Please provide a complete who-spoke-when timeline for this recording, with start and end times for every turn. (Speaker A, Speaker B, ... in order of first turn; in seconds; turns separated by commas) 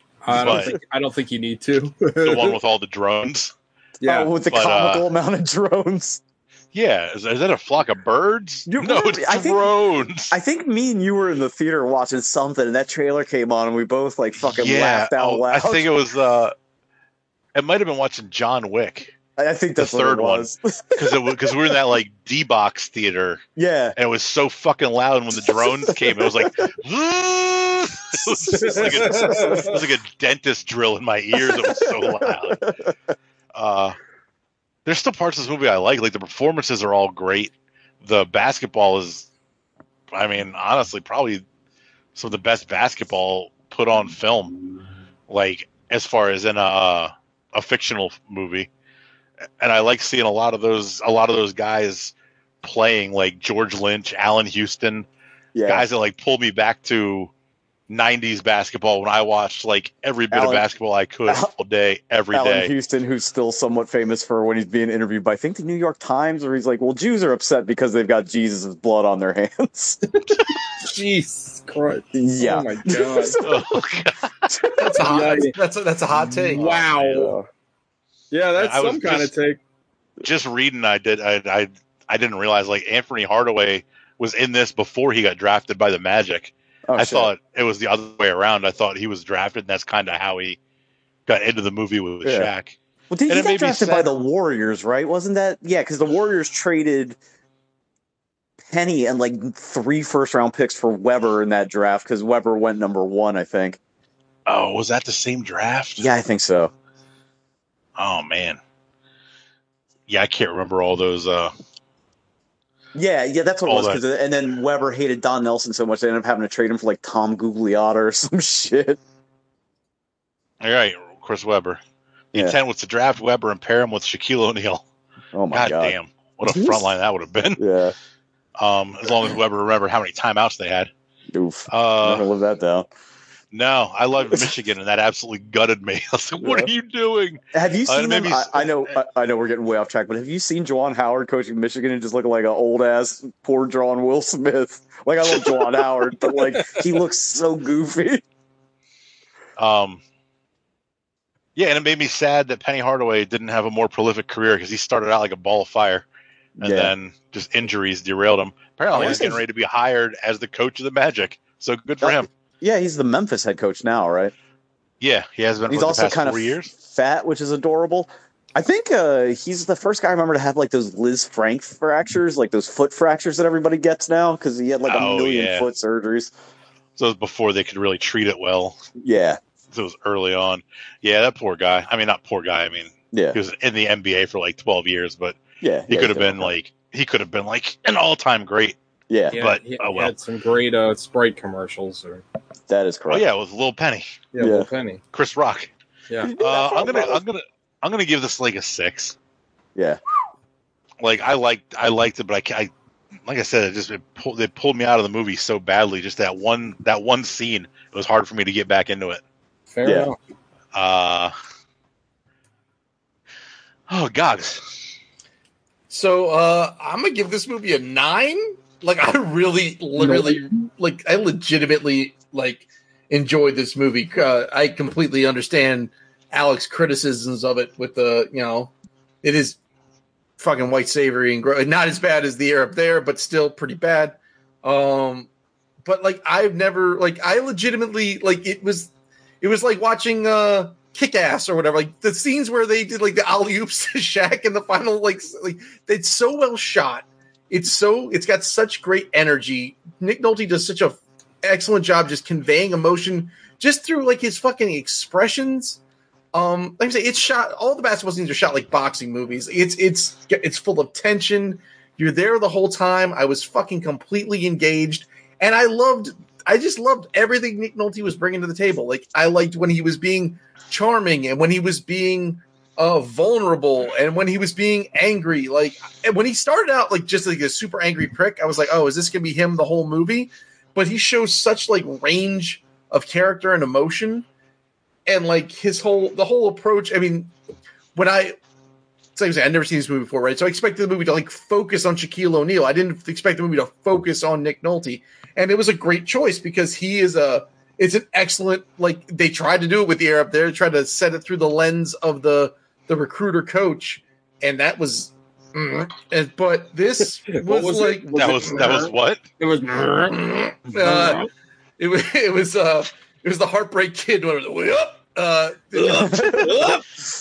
Speaker A: 0.2-2.6, Speaker B: 0.3-0.7, Speaker C: 0.4-0.7, Speaker B: 2.2-3.5, Speaker A: 4.0-4.3, Speaker C: 4.0-6.2, Speaker B: 4.5-5.0, Speaker B: 6.7-10.3, Speaker C: 8.7-15.9, Speaker B: 14.4-16.5, Speaker B: 17.5-19.1, Speaker C: 19.4-21.7, Speaker B: 19.8-23.4, Speaker C: 23.6-23.9, Speaker B: 23.9-32.6, Speaker C: 25.4-26.7, Speaker C: 28.2-29.8, Speaker A: 28.5-29.8, Speaker C: 31.4-32.9, Speaker B: 33.5-34.0, Speaker B: 34.9-39.3, Speaker B: 40.1-41.4, Speaker B: 42.1-44.6, Speaker B: 45.3-48.7, Speaker B: 49.6-55.1, Speaker C: 55.5-55.8, Speaker B: 55.7-57.3, Speaker B: 57.9-62.7, Speaker C: 60.3-60.6, Speaker C: 62.3-70.0, Speaker A: 70.3-73.4, Speaker C: 72.1-73.7, Speaker B: 73.4-74.3, Speaker C: 74.5-74.8, Speaker D: 74.8-76.6, Speaker A: 74.9-75.5, Speaker A: 76.4-77.3, Speaker C: 76.8-77.5, Speaker A: 78.3-79.6, Speaker B: 78.5-79.3, Speaker B: 80.2-90.6, Speaker C: 86.9-87.3, Speaker B: 91.3-92.8, Speaker C: 92.2-92.5, Speaker C: 93.1-97.2, Speaker B: 93.3-94.1, Speaker C: 98.6-103.8, Speaker B: 104.5-106.1, Speaker C: 106.0-106.7, Speaker B: 108.0-108.6, Speaker B: 110.1-111.5, Speaker C: 112.9-119.0, Speaker B: 113.7-114.0, Speaker B: 120.6-121.8, Speaker B: 122.3-124.8, Speaker C: 125.3-126.9, Speaker B: 125.5-127.6, Speaker C: 127.6-127.9, Speaker B: 128.6-130.9, Speaker C: 131.3-132.9, Speaker B: 131.7-132.2, Speaker B: 133.5-138.9, Speaker C: 136.4-136.7, Speaker C: 137.5-148.2, Speaker B: 149.6-150.0, Speaker B: 151.6-156.0, Speaker C: 156.6-156.9, Speaker B: 156.6-162.3, Speaker C: 158.9-159.4, Speaker A: 158.9-159.2, Speaker C: 162.0-164.3, Speaker B: 165.0-166.7, Speaker C: 165.7-176.3, Speaker B: 174.8-175.7, Speaker B: 176.9-178.8, Speaker C: 179.0-179.4, Speaker B: 179.7-188.8, Speaker C: 183.1-183.4, Speaker C: 185.6-186.5, Speaker C: 189.1-189.4, Speaker A: 189.3-192.2, Speaker B: 189.4-190.1, Speaker C: 192.7-193.2, Speaker B: 193.1-194.2, Speaker A: 194.3-195.0, Speaker C: 194.4-194.7, Speaker B: 195.1-195.7, Speaker C: 196.2-197.2, Speaker B: 196.4-199.1, Speaker B: 201.0-202.7, Speaker B: 203.2-209.2, Speaker A: 209.7-210.2, Speaker C: 209.8-210.1, Speaker B: 210.7-211.3, Speaker B: 213.9-214.6, Speaker D: 215.9-228.7, Speaker A: 220.0-220.5, Speaker D: 229.2-229.6, Speaker D: 230.4-235.3, Speaker D: 235.8-255.8, Speaker D: 256.3-284.2, Speaker D: 285.1-287.3, Speaker D: 287.9-288.4, Speaker D: 289.1-308.9, Speaker A: 307.3-311.3, Speaker B: 308.1-309.2, Speaker D: 310.3-311.3, Speaker D: 311.8-316.8, Speaker A: 315.8-316.9, Speaker C: 316.1-316.4